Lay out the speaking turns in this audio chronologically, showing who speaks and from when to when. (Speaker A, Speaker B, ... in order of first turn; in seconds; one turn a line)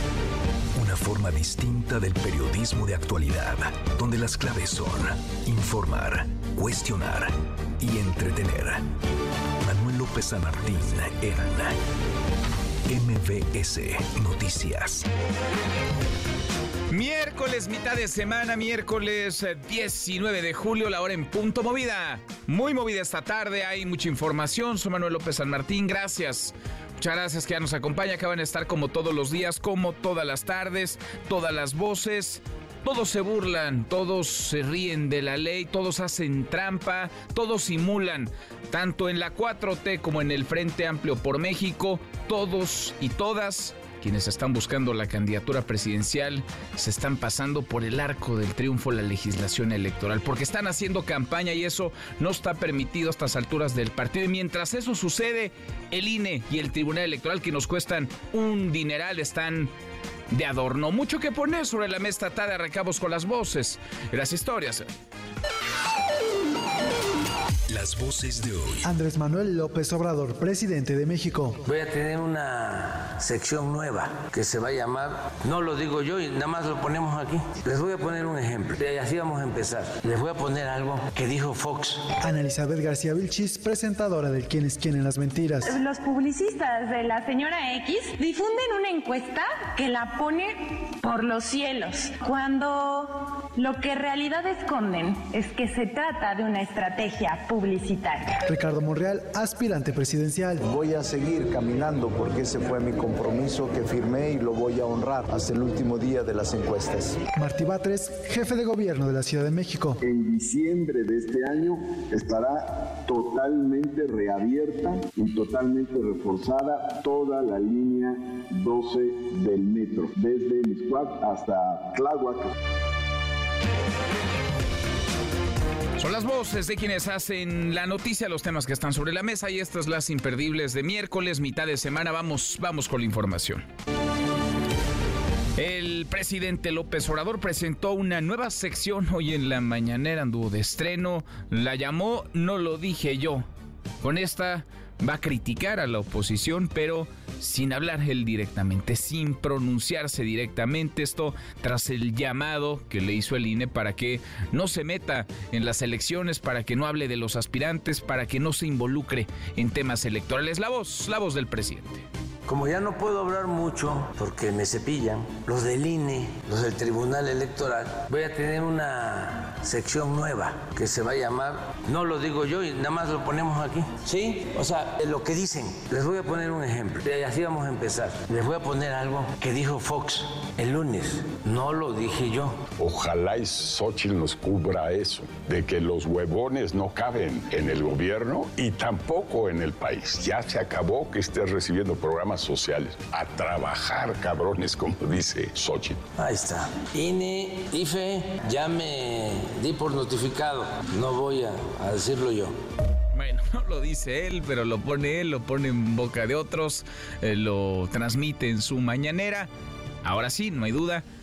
Speaker A: 0.7-8.8
Speaker A: 9.6-11.8
Speaker A: 12.9-15.1
Speaker B: 16.9-59.7
Speaker B: 60.3-64.8
Speaker A: 67.7-68.9
Speaker C: 68.8-71.6
Speaker D: 71.6-82.1
Speaker C: 82.2-85.7
Speaker E: 85.6-98.4
Speaker C: 98.5-100.6
Speaker F: 100.6-107.2
Speaker C: 107.3-110.0
Speaker G: 110.0-122.5
Speaker B: 126.0-133.7
Speaker B: 135.6-143.4
Speaker B: 144.0-162.1
Speaker D: 162.5-182.6
Speaker H: 182.8-196.0
Speaker D: 196.2-202.5
Speaker B: 203.1-209.5
Speaker B: 210.0-211.0